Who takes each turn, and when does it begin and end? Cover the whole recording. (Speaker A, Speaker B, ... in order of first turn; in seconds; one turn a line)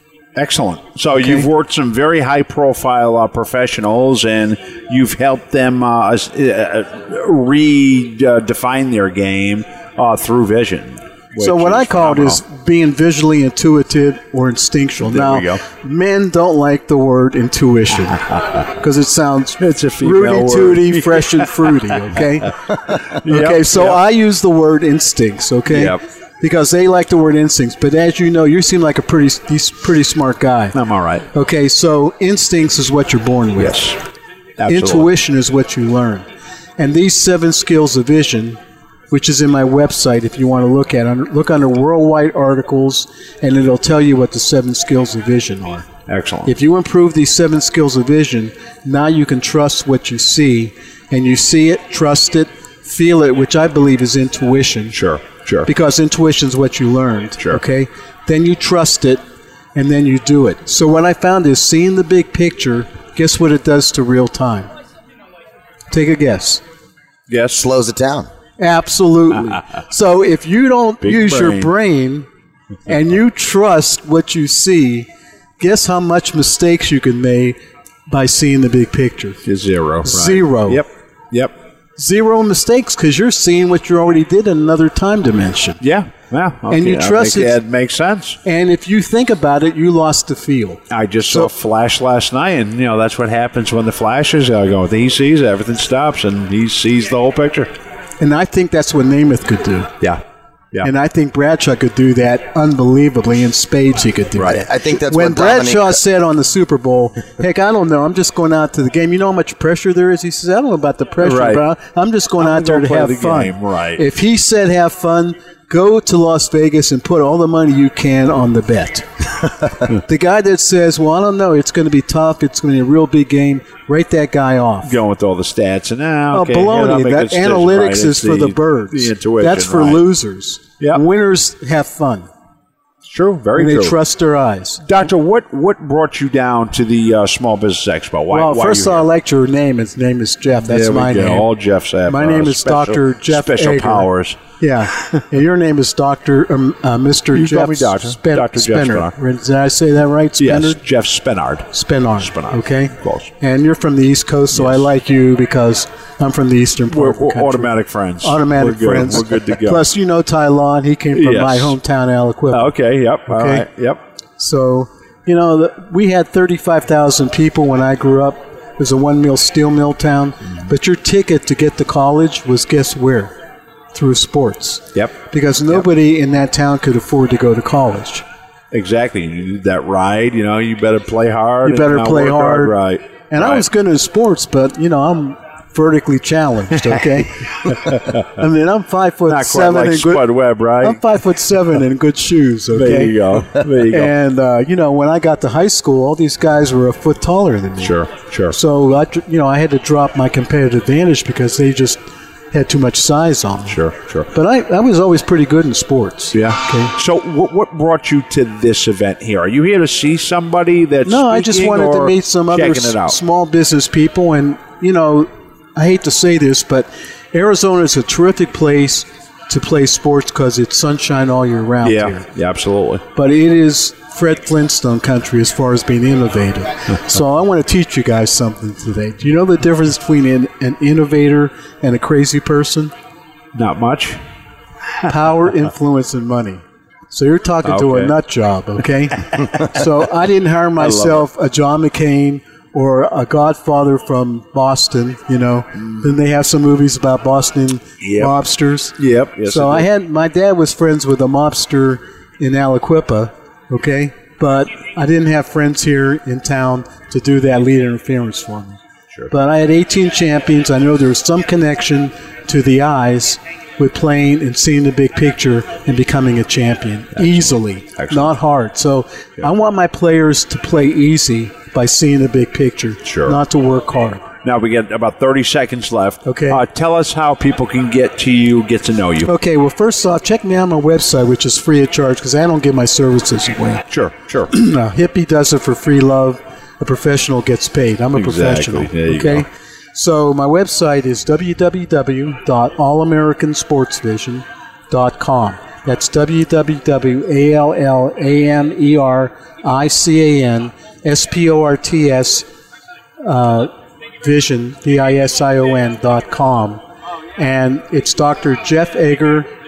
Speaker A: 0.3-12.4
Speaker B: 11.4-30.8
Speaker A: 15.0-15.6
Speaker A: 19.6-22.2
Speaker A: 23.2-24.0
Speaker A: 25.7-26.0
Speaker A: 30.7-31.3
Speaker B: 31.3-33.9
Speaker A: 33.6-34.0
Speaker A: 34.6-35.1
Speaker B: 34.7-36.2
Speaker B: 36.8-38.6
Speaker B: 39.1-45.9
Speaker A: 46.1-46.5
Speaker B: 46.4-55.0
Speaker A: 54.9-55.7
Speaker B: 55.6-59.2
Speaker B: 59.7-64.7
Speaker B: 65.9-66.6
Speaker A: 67.3-67.6
Speaker C: 67.5-68.3
Speaker B: 68.6-72.3
Speaker A: 71.0-71.7
Speaker B: 72.8-75.1
Speaker B: 75.6-77.6
Speaker B: 78.1-79.4
Speaker A: 79.5-81.5
Speaker B: 80.0-80.8
Speaker B: 82.0-85.8
Speaker A: 85.8-88.4
Speaker B: 86.7-87.6
Speaker B: 88.4-91.5
Speaker A: 90.9-97.7
Speaker B: 98.2-99.9
Speaker B: 100.8-125.0
Speaker C: 104.4-105.9
Speaker A: 111.2-111.6
Speaker A: 112.4-114.0
Speaker A: 124.8-130.1
Speaker B: 126.3-132.3
Speaker A: 133.0-134.0
Speaker B: 133.5-134.8
Speaker A: 134.8-139.1
Speaker B: 138.3-141.5
Speaker A: 140.6-144.4
Speaker B: 142.1-150.8
Speaker A: 147.3-149.1
Speaker A: 150.4-153.3
Speaker B: 151.7-163.7
Speaker A: 154.5-154.9
Speaker A: 156.9-159.9
Speaker A: 161.1-161.8
Speaker A: 162.5-164.0
Speaker B: 164.4-173.3
Speaker B: 173.9-178.2
Speaker A: 178.7-183.6
Speaker B: 181.6-182.7
Speaker B: 183.3-206.9
Speaker A: 189.3-191.0
Speaker A: 192.7-194.1
Speaker A: 197.8-198.6
Speaker A: 203.7-204.3
Speaker A: 206.3-213.2
Speaker B: 211.0-222.2
Speaker A: 221.8-223.0
Speaker B: 223.1-232.9
Speaker A: 233.5-234.2
Speaker B: 235.0-274.2
Speaker A: 237.6-238.1
Speaker A: 240.8-241.2
Speaker A: 248.0-248.3
Speaker A: 249.0-249.9
Speaker A: 267.1-268.3
Speaker A: 273.0-273.4
Speaker A: 274.4-279.3
Speaker B: 276.2-276.6
Speaker B: 279.2-283.8
Speaker A: 283.9-284.5
Speaker B: 284.5-302.5
Speaker A: 288.1-289.4
Speaker B: 303.2-306.8
Speaker B: 307.4-309.5